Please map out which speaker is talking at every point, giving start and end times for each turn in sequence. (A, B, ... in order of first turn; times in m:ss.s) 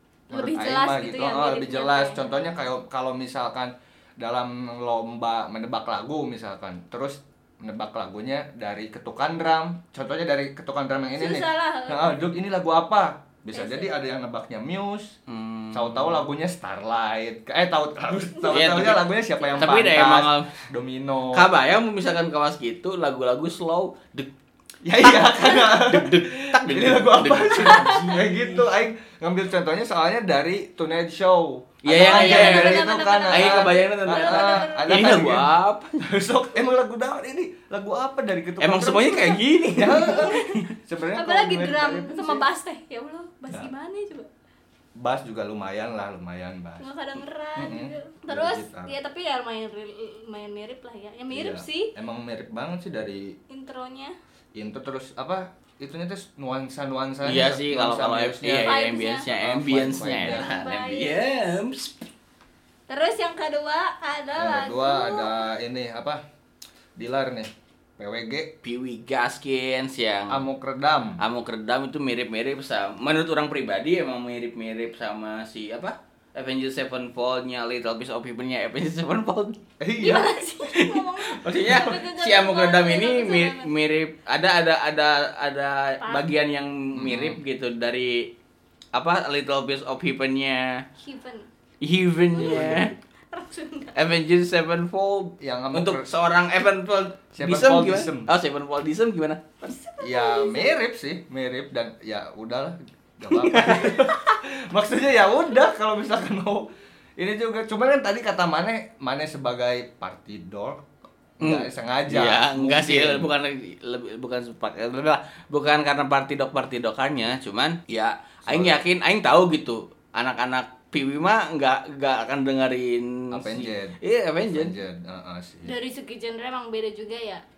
0:00.3-0:02.4 A
0:00.3-0:15.2 B
0:11.2-0:12.3 A
0:13.5-0:13.9 A
0:15.3-0:16.2 C
0:15.7-0:21.5 B
0:18.5-0:20.6 C
0:19.2-0:20.0 A
0:21.3-0:24.3 C
0:24.8-0:42.5 B
0:25.0-0:28.6 C
0:27.6-0:28.2 A
0:31.8-0:36.0 C
0:31.9-0:35.2 A
0:38.6-0:40.7 C
0:39.9-0:40.6 A
0:41.2-0:44.3 A
0:45.0-0:46.9 B
0:46.8-0:51.9 A
0:47.6-0:49.0 B
0:51.3-0:53.3 B
0:53.5-0:54.2 A
0:54.6-1:00.5 B
0:57.2-1:01.9 C
0:58.6-0:59.3 A
1:00.2-1:01.6 A
1:02.9-1:05.4 A
1:04.4-1:06.2 B
1:07.0-1:08.5 B
1:08.6-1:10.4 C
1:10.3-1:11.2 B
1:11.2-1:19.6 C
1:19.8-1:20.5 B
1:20.0-1:23.7 A
1:20.7-1:28.3 C
1:21.5-1:21.8 B
1:26.0-1:26.3 A
1:27.0-1:27.4 B
1:28.9-1:30.8 C
1:31.0-1:31.5 A
1:31.8-1:32.9 C
1:32.3-1:34.0 A
1:32.4-1:32.9 B
1:34.0-1:39.8 C
1:35.4-1:36.1 B
1:37.4-1:38.3 B
1:39.6-1:40.8 A
1:40.0-1:50.8 B
1:43.3-1:44.1 C
1:51.4-1:53.3 B
1:51.4-2:04.8 C
1:58.5-1:58.8 B
2:03.3-2:05.7 B
2:05.7-2:07.4 A